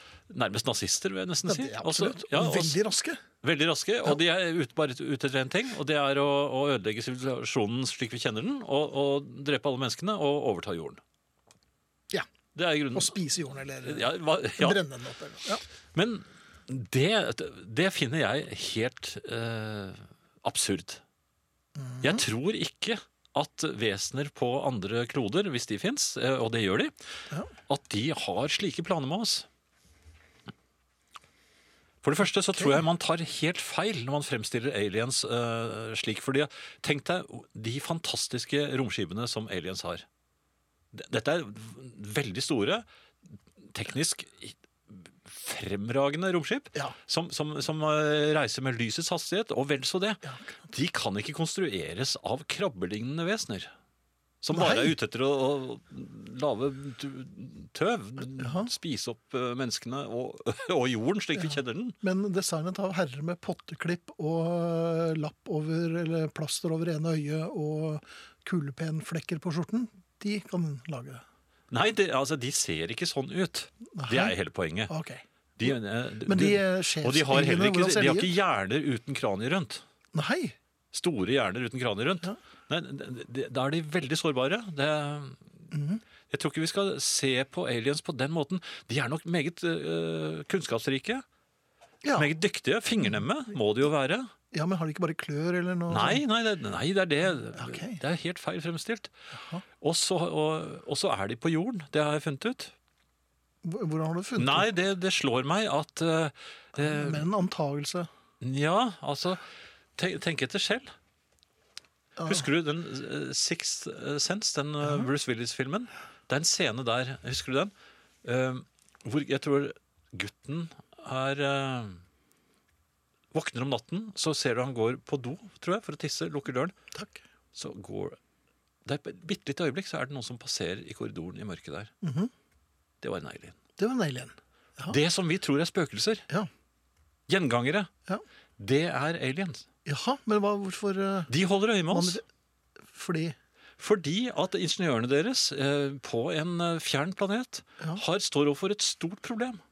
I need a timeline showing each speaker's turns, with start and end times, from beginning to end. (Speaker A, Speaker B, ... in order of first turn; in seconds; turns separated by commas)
Speaker A: 0.3-2.8, Speaker B: 1.4-3.2, Speaker A: 3.4-11.0, Speaker A: 12.5-13.2, Speaker B: 12.9-15.6, Speaker A: 13.8-14.8, Speaker A: 15.9-21.0, Speaker B: 21.8-22.2, Speaker A: 22.0-26.9, Speaker A: 27.7-29.4, Speaker A: 32.0-40.0, Speaker B: 32.6-32.8, Speaker A: 40.9-42.8, Speaker A: 43.7-53.7, Speaker B: 50.2-50.6, Speaker A: 54.4-62.0, Speaker B: 54.5-54.9, Speaker B: 58.4-58.7, Speaker B: 61.4-71.2, Speaker A: 71.7-74.9, Speaker B: 73.9-74.3, Speaker B: 74.9-78.3, Speaker A: 75.6-79.8, Speaker B: 80.1-80.5, Speaker A: 80.9-85.4, Speaker B: 85.7-86.0, Speaker A: 86.3-91.2, Speaker B: 92.0-92.3, Speaker A: 92.2-94.3, Speaker B: 94.5-96.2, Speaker A: 95.9-99.1, Speaker B: 97.5-98.0, Speaker B: 99.3-99.6, Speaker A: 99.8-102.7, Speaker B: 103.6-104.7, Speaker A: 104.4-107.2, Speaker B: 106.8-108.1, Speaker A: 108.4-109.4, Speaker A: 110.0-110.9, Speaker B: 112.2-112.5, Speaker A: 112.2-117.7, Speaker B: 114.8-115.1, Speaker A: 118.2-122.0, Speaker A: 123.3-126.7, Speaker B: 126.9-127.2, Speaker A: 127.5-128.2, Speaker A: 128.8-131.9, Speaker B: 132.0-132.3, Speaker A: 133.0-133.6, Speaker B: 133.8-135.0, Speaker A: 134.9-136.2, Speaker A: 137.3-137.9, Speaker A: 138.6-139.7, Speaker B: 139.8-141.3, Speaker A: 141.3-142.2, Speaker B: 141.9-142.2, Speaker B: 142.8-143.3, Speaker A: 143.8-149.6